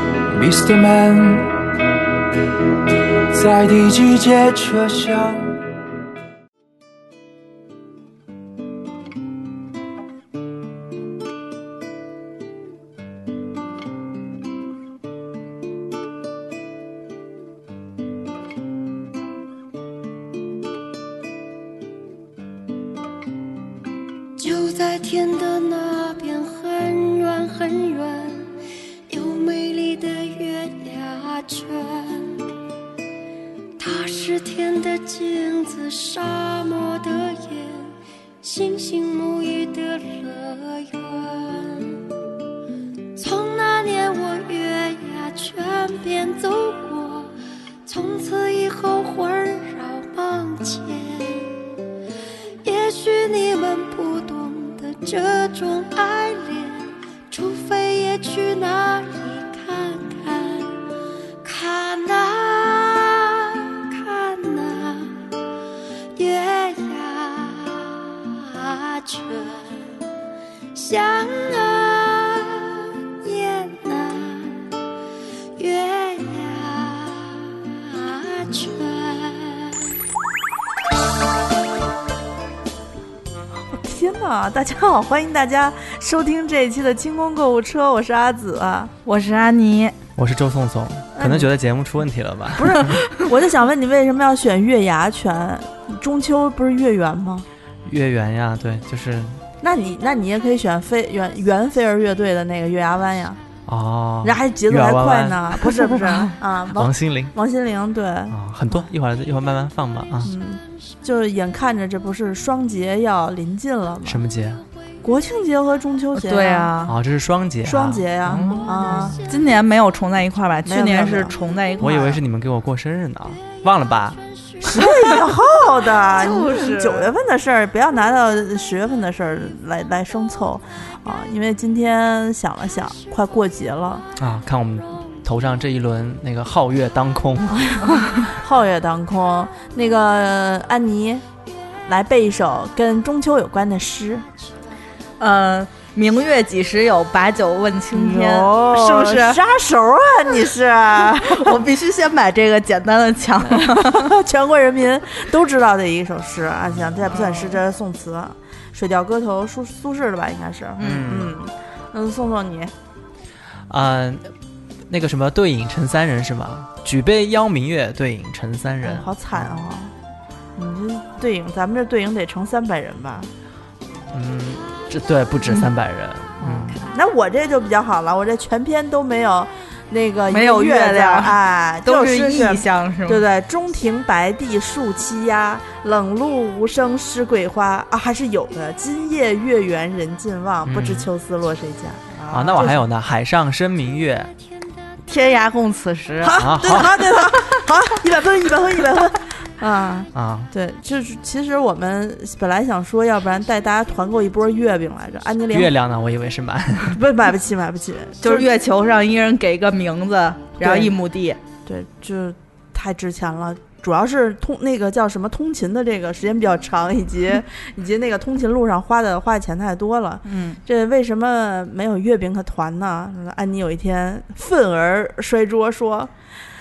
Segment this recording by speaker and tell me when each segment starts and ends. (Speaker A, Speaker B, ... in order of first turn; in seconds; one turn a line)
Speaker A: 0.3-1.5
Speaker A: 3.3-5.6
Speaker B: 24.4-28.6
Speaker B: 29.1-32.5
Speaker B: 33.8-42.0
Speaker B: 43.1-51.5
Speaker B: 52.6-60.8
Speaker B: 61.4-65.2
Speaker B: 66.1-69.9
Speaker B: 70.7-74.7
Speaker B: 75.5-79.9
Speaker C: 83.7-88.9
Speaker D: 89.0-90.0
Speaker E: 90.2-93.0
Speaker C: 91.2-91.5
Speaker C: 92.5-97.5
Speaker E: 97.9-99.4
Speaker C: 99.6-103.4
Speaker E: 103.7-105.9
Speaker C: 104.2-108.9
Speaker E: 106.7-107.3
Speaker E: 108.3-110.3
Speaker C: 110.2-114.2
Speaker E: 114.0-114.6
Speaker C: 115.0-116.8
Speaker D: 116.1-117.0
Speaker E: 116.9-119.3
Speaker C: 117.6-119.2
Speaker D: 118.4-122.2
Speaker C: 120.7-121.4
Speaker E: 121.8-124.2
Speaker C: 124.6-134.1
Speaker D: 126.0-127.1
Speaker E: 134.2-137.8
Speaker C: 137.5-141.2
Speaker C: 141.9-144.2
Speaker D: 145.2-149.4
Speaker C: 147.9-151.6
Speaker D: 151.0-154.2
Speaker C: 153.4-162.7
Speaker D: 157.1-157.6
Speaker D: 160.8-161.1
Speaker E: 160.8-161.4
Speaker E: 163.7-164.3
Speaker E: 164.9-169.5
Speaker C: 168.8-169.9
Speaker C: 170.6-173.3
Speaker E: 174.1-176.8
Speaker C: 176.4-192.8
Speaker D: 180.3-183.2
Speaker E: 190.7-191.1
Speaker E: 192.3-194.3
Speaker D: 195.1-196.4
Speaker C: 196.2-205.7
Speaker E: 196.4-197.1
Speaker D: 197.0-197.6
Speaker E: 200.1-200.5
Speaker E: 205.5-207.0
Speaker C: 206.9-208.5
Speaker D: 208.2-211.4
Speaker C: 210.6-210.9
Speaker C: 211.7-226.1
Speaker D: 220.3-220.6